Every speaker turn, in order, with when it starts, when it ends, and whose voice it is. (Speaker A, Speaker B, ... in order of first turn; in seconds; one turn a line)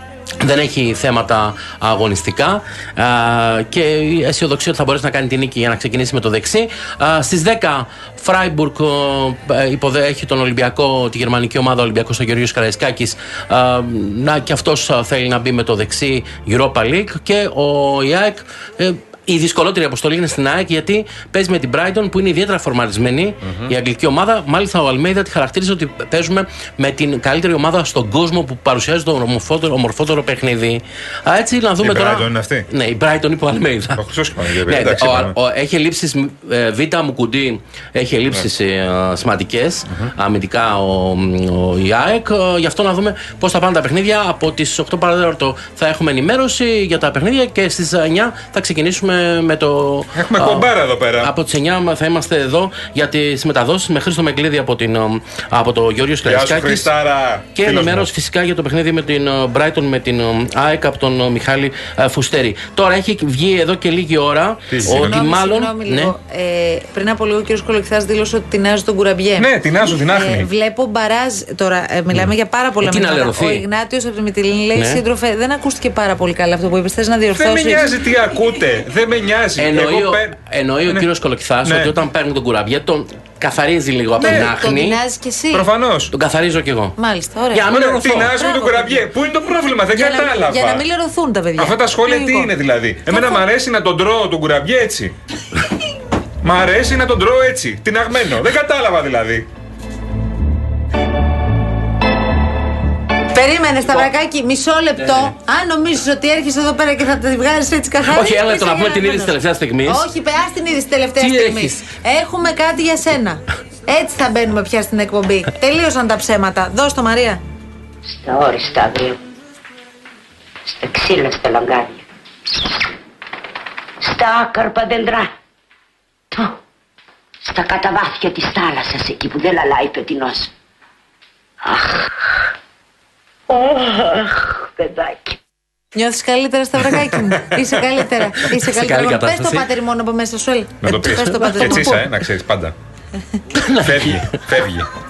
Speaker A: 0.4-34.0
Speaker B: 23.4-23.7
Speaker B: 31.8-32.7
Speaker B: 33.9-35.4
Speaker A: 34.5-56.9
Speaker B: 50.1-51.3
Speaker B: 56.2-58.1
Speaker A: 57.5-66.1
Speaker B: 64.7-65.2
Speaker C: 64.9-69.5
Speaker B: 69.3-70.5
Speaker C: 70.1-77.9
Speaker A: 72.1-73.7
Speaker A: 74.7-75.0
Speaker B: 77.3-81.1
Speaker A: 79.6-85.0
Speaker B: 81.6-82.0
Speaker C: 84.2-85.7
Speaker B: 84.2-84.5
Speaker B: 85.5-86.1
Speaker A: 86.1-87.0
Speaker C: 87.0-87.7
Speaker A: 87.5-88.3
Speaker B: 87.7-90.8
Speaker C: 88.3-89.0
Speaker C: 89.9-92.5
Speaker B: 91.6-95.1
Speaker C: 93.1-93.4
Speaker B: 96.4-99.5
Speaker C: 103.3-117.4
Speaker A: 105.0-105.3
Speaker A: 108.0-110.1
Speaker A: 111.2-111.9
Speaker D: 118.0-119.2
Speaker D: 120.7-122.0
Speaker D: 124.0-125.3
Speaker D: 127.5-130.5
Speaker D: 131.6-132.0
Speaker D: 133.5-135.3
Speaker C: 135.9-142.1
Speaker A: 138.5-139.7
Speaker B: 140.8-142.7
Speaker A: 141.4-141.8
Speaker A: 143.5-144.2
Speaker B: 143.8-144.9